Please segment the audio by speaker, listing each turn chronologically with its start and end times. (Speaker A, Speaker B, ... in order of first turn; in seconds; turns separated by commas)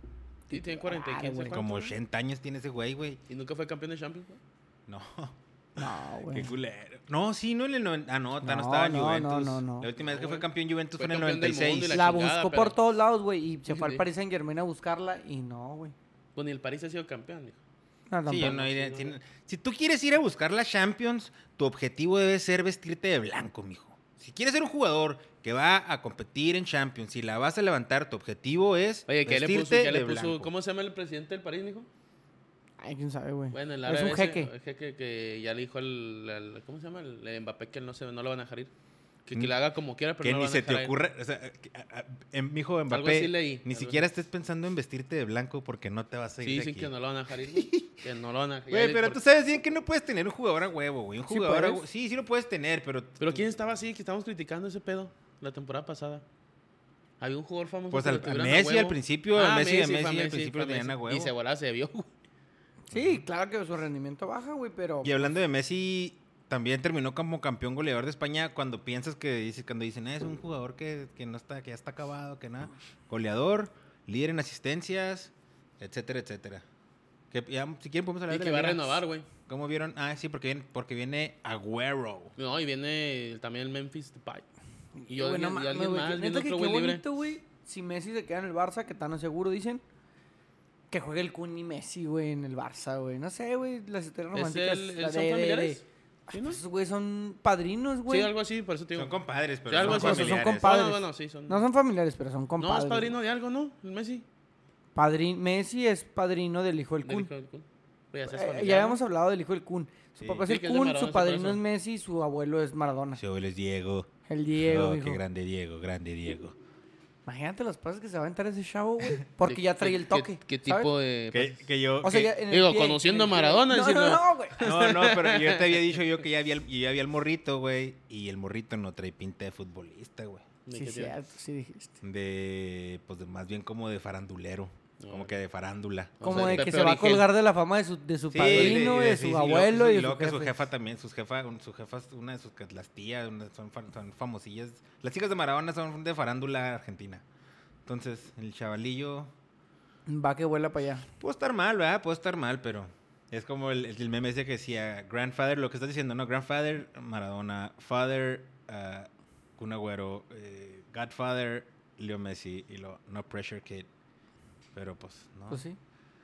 Speaker A: 0.5-1.7, Speaker B: 0.5-1.9, Speaker C: 1.5-3.2, Speaker B: 3.3-4.4, Speaker C: 4.9-12.0, Speaker A: 5.8-6.5, Speaker A: 8.4-9.9, Speaker B: 10.0-12.8, Speaker A: 11.9-15.9, Speaker B: 13.7-14.0, Speaker B: 16.4-17.6, Speaker A: 18.1-18.6, Speaker C: 18.3-30.5, Speaker B: 18.4-19.1, Speaker B: 29.1-31.9, Speaker A: 32.8-34.5, Speaker B: 33.5-38.7, Speaker B: 39.3-40.9, Speaker C: 40.2-46.9, Speaker B: 42.9-44.0, Speaker B: 46.4-49.2, Speaker C: 47.4-48.0, Speaker C: 48.7-53.5, Speaker A: 51.3-51.8, Speaker B: 53.2-56.2, Speaker B: 57.2-62.1, Speaker C: 57.9-61.3, Speaker A: 62.9-65.2, Speaker C: 62.9-63.2, Speaker C: 65.0-76.7, Speaker C: 77.3-82.3, Speaker B: 78.3-79.3, Speaker B: 82.4-84.5, Speaker A: 85.0-89.8, Speaker B: 85.1-87.0, Speaker A: 90.9-98.3, Speaker B: 94.3-96.6, Speaker B: 98.1-101.7, Speaker C: 99.0-100.8, Speaker A: 99.8-103.2, Speaker B: 102.6-104.2, Speaker A: 105.0-107.3, Speaker B: 107.0-109.0, Speaker A: 108.3-113.2, Speaker C: 110.2-110.4, Speaker B: 110.5-111.6, Speaker C: 113.2-116.6, Speaker A: 114.3-115.2, Speaker A: 117.3-120.9, Speaker B: 119.5-121.7, Speaker C: 121.3-122.4, Speaker A: 122.0-124.6, Speaker B: 122.2-126.0, Speaker C: 124.6-130.5, Speaker B: 130.7-131.1, Speaker A: 130.7-132.0, Speaker C: 132.0-136.7, Speaker B: 135.0-135.3, Speaker B: 136.2-137.3, Speaker A: 136.2-140.5, Speaker C: 138.3-147.2, Speaker B: 138.4-138.9, Speaker C: 147.9-149.3, Speaker A: 150.1-151.1, Speaker C: 151.2-163.9, Speaker C: 164.8-165.6, Speaker A: 165.5-165.8